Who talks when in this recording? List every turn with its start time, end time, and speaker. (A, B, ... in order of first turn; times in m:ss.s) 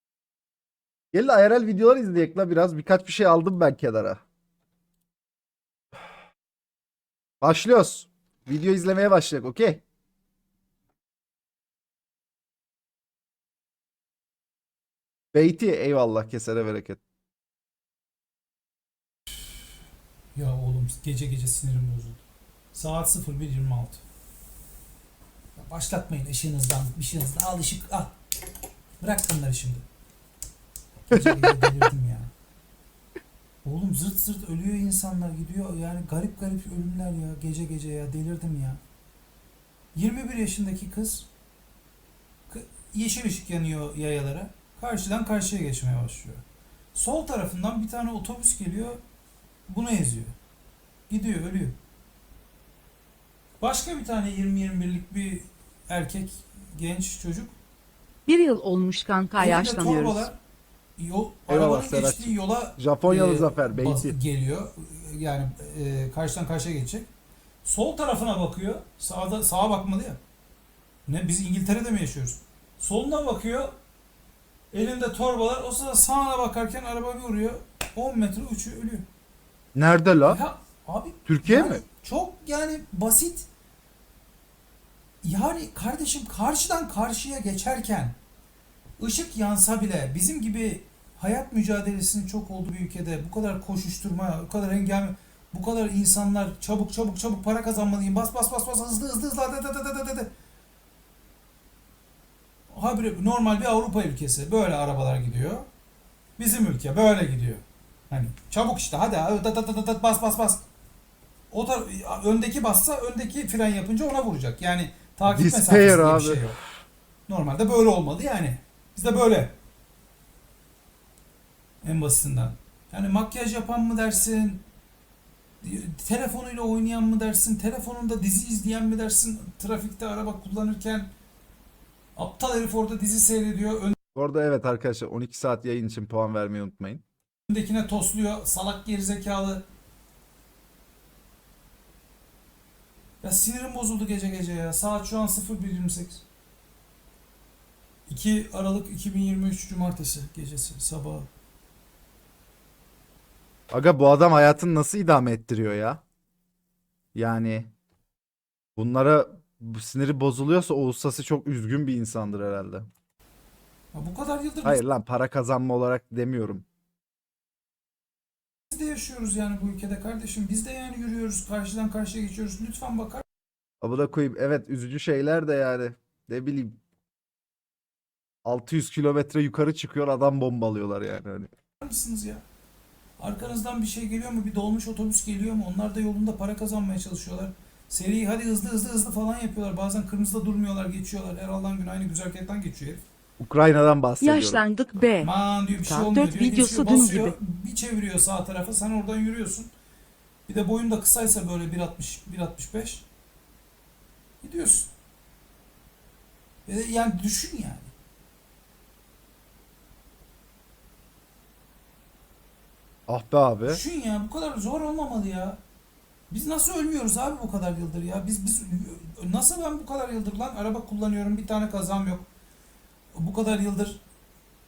0:01.1-0:04.2 A
0:07.4-0:09.8 A
0:15.3-0:17.0 A
0:20.3-0:22.2 B
0:22.7-0:24.0 B
0:25.6-0:28.2 B
0:29.0-0:29.8 B
0:31.0-0:32.3 B
0:33.6-0:38.8 B
0:39.9-0:41.3 B
0:42.5-0:49.0 B
0:49.7-0:50.3 B
0:51.1-0:51.8 B
0:53.6-0:57.5 B
0:58.2-1:00.3 C
0:59.4-1:00.4 B
1:01.0-1:07.1 B
1:01.5-1:04.2 A
1:07.6-1:10.2 B
1:11.1-1:13.7 B
1:14.7-1:19.1 B
1:19.8-1:20.4 A
1:20.2-1:23.5 B
1:21.2-1:21.8 A
1:25.2-1:28.1 B
1:29.0-1:40.3 B
1:42.7-1:45.7 B
1:46.4-1:50.6 B
1:51.5-1:56.6 B
1:55.3-1:56.5 A
1:57.3-1:59.5 B
2:01.8-2:04.6 B
2:05.6-2:11.1 B
2:12.2-2:14.0 B
2:14.1-2:17.0 A
2:17.5-2:19.6 B
2:23.2-2:26.2 B
2:28.1-2:31.3 B
2:33.7-2:36.0 A
2:37.1-2:37.7 A
2:38.8-2:42.9 A
2:43.9-2:44.8 B
2:44.6-2:46.6 A
2:48.7-2:53.2 B
2:53.8-2:56.8 A
2:58.4-3:01.5 A
3:01.8-3:02.4 B
3:03.2-3:13.0 B
3:13.4-3:14.6 A
3:14.2-3:15.3 C
3:15.2-3:19.7 B
3:15.8-3:17.4 C
3:20.5-3:23.1 B
3:24.4-3:24.9 B
3:26.7-3:27.9 B
3:33.1-3:33.8 A
3:33.7-3:35.6 B
3:36.3-3:42.3 B
3:43.1-3:44.0 B